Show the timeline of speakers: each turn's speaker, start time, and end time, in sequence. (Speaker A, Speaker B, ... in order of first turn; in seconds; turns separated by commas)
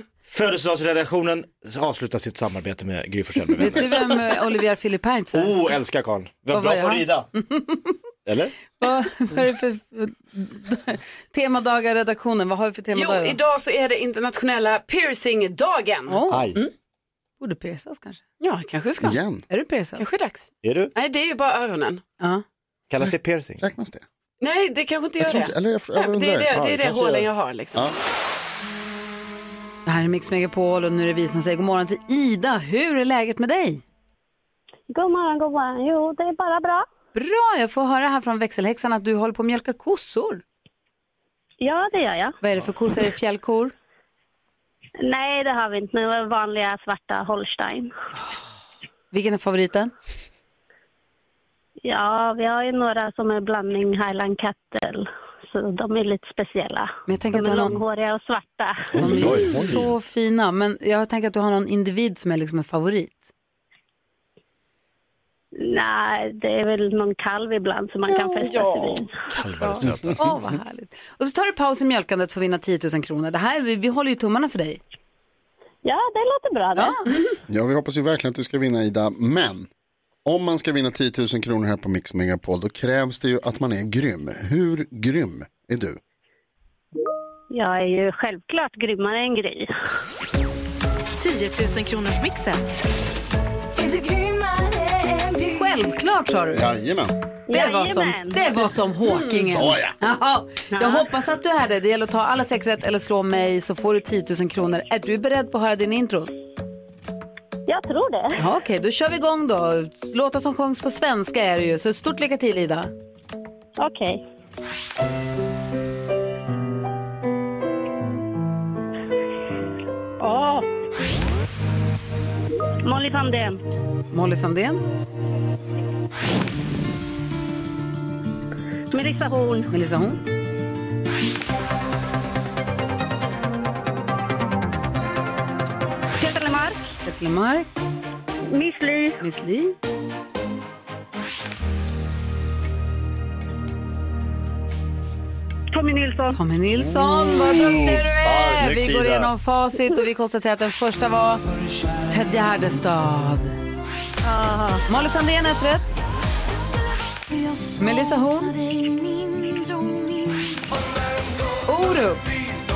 Speaker A: 0.2-4.3, Speaker B: 3.6-5.7, Speaker A: 5.3-7.3, Speaker B: 6.5-8.0, Speaker A: 8.2-8.6, Speaker B: 8.8-13.4, Speaker C: 12.9-16.7, Speaker B: 16.1-16.6, Speaker A: 16.3-16.6, Speaker B: 17.4-18.2, Speaker C: 18.4-19.2, Speaker D: 19.0-19.4, Speaker B: 19.5-20.0, Speaker C: 20.0-22.0, Speaker A: 20.6-20.9, Speaker A: 22.9-23.6, Speaker D: 23.6-24.0, Speaker C: 24.4-27.9, Speaker D: 25.2-26.5, Speaker A: 26.5-27.3, Speaker B: 29.9-33.8, Speaker E: 34.9-36.9, Speaker B: 37.1-40.4, Speaker E: 41.6-42.4, Speaker B: 42.4-43.7, Speaker E: 45.0-47.9, Speaker B: 49.1-49.9, Speaker E: 51.8-59.5, Speaker B: 57.1-57.8, Speaker A: 58.9-59.9, Speaker B: 59.0-63.3, Speaker E: 65.6-69.2, Speaker B: 68.1-68.5, Speaker C: 68.4-69.0, Speaker A: 69.3-70.5, Speaker B: 69.6-74.8, Speaker E: 75.8-77.2, Speaker B: 76.8-77.0, Speaker D: 77.5-79.7, Speaker D: 80.2-86.0, Speaker E: 87.5-89.7, Speaker F: 91.2-92.5, Speaker F: 93.8-95.9, Speaker B: 95.4-96.7, Speaker D: 96.5-97.1, Speaker E: 97.5-98.4, Speaker B: 97.5-106.3, Speaker D: 99.4-99.9, Speaker E: 100.7-101.0, Speaker E: 107.7-108.4, Speaker B: 108.4-112.9, Speaker E: 113.8-114.2, Speaker E: 120.2-120.7, Speaker E: 122.8-123.6, Speaker B: 124.1-124.8, Speaker E: 128.9-129.7, Speaker B: 129.7-130.2, Speaker E: 136.2-136.8, Speaker B: 137.0-137.7, Speaker E: 138.5-139.2, Speaker B: 139.2-139.7, Speaker E: 145.7-146.4, Speaker B: 146.3-151.4, Speaker A: 146.9-149.3, Speaker B: 152.0-153.6, Speaker E: 154.2-154.8, Speaker B: 154.9-155.9, Speaker F: 156.7-160.6, Speaker B: 157.8-158.5, Speaker B: 161.7-162.2